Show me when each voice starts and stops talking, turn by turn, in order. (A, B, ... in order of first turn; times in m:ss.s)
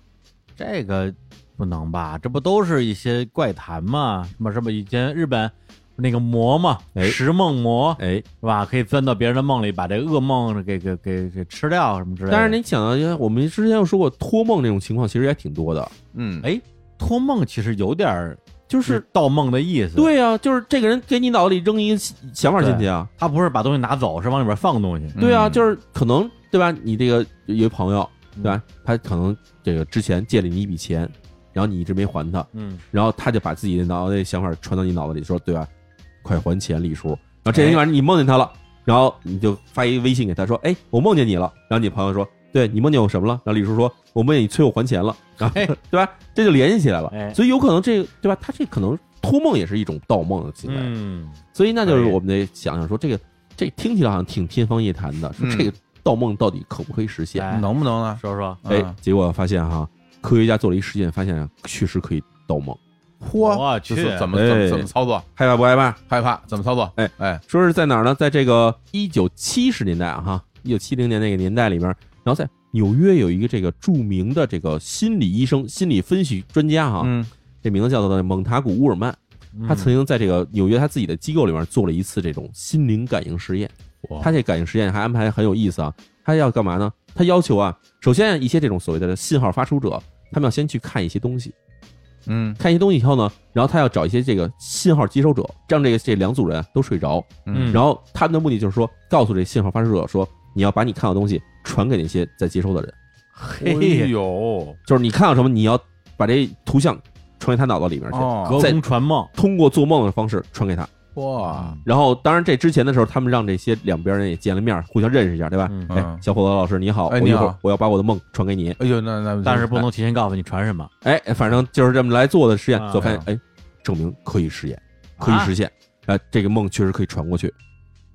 0:00.6-0:12.6 A
0:08.0-0:08.2 B
0:12.3-0:15.9 B
0:16.1-0:16.4 C
0:16.4-0:20.1 A
0:18.7-0:19.0 B
0:20.0-0:23.1 B
0:22.6-0:25.2 A
0:25.2-0:25.7 C
0:25.2-0:35.7 B
0:32.5-0:32.8 A
0:36.2-0:50.9 B
0:37.5-0:37.8 A
0:47.1-0:47.4 A
0:50.7-0:52.2 A
0:51.5-0:57.5 B
0:55.4-0:55.7 C
0:57.3-0:58.6 A
0:57.5-0:59.0 C
0:58.7-1:02.8 B
1:03.2-1:05.3 C
1:03.4-1:04.3 A
1:04.3-1:06.0 B
1:06.1-1:07.4 C
1:07.0-1:31.5 B
1:17.0-1:17.3 C
1:19.5-1:19.9 A
1:24.0-1:24.3 C
1:32.3-1:32.6 C
1:32.6-1:42.9 B
1:37.4-1:37.8 C
1:37.5-1:37.8 A
1:43.4-1:44.1 A
1:43.6-1:44.8 C
1:44.9-1:48.8 B
1:48.1-1:48.7 C
1:48.4-1:49.3 A
1:49.3-1:50.9 B
1:51.1-1:51.8 C
1:51.4-1:51.8 A
1:51.8-1:58.8 B
1:55.7-1:56.0 A
1:55.9-1:56.2 C
1:57.1-1:57.6 C
1:58.8-1:59.9 C
1:59.4-2:00.9 A
2:01.0-2:07.5 B
2:02.8-2:03.2 A
2:03.0-2:03.2 C
2:05.2-2:05.5 A